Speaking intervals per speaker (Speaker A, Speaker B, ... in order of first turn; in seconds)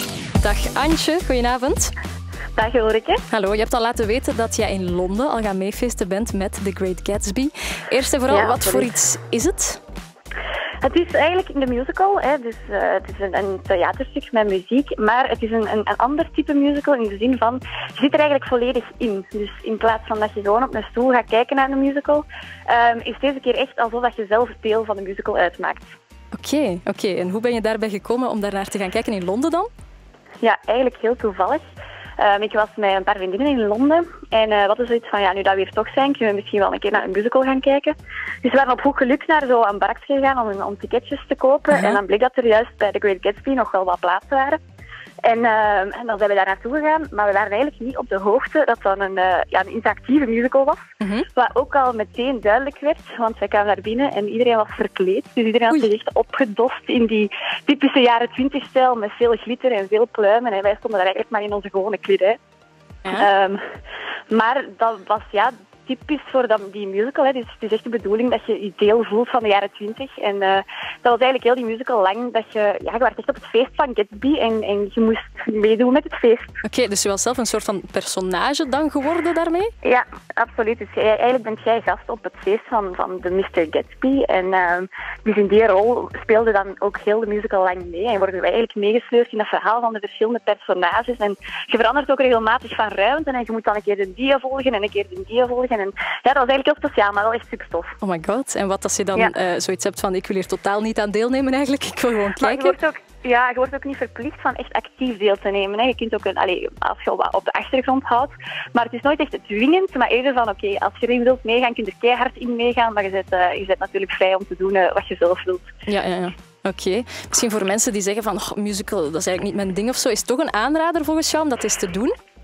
Speaker A: 0.4-1.9, 3.3-9.8, 26.3-29.7, 51.0-51.3, 76.6-79.7, 98.0-102.8, 115.8-122.1
Speaker B: 2.5-3.2, 8.3-8.9, 10.8-25.9, 30.4-31.6, 32.2-44.6, 45.2-50.8, 51.3-62.4, 63.1-63.6, 64.3-76.5, 79.8-98.0, 102.4-115.7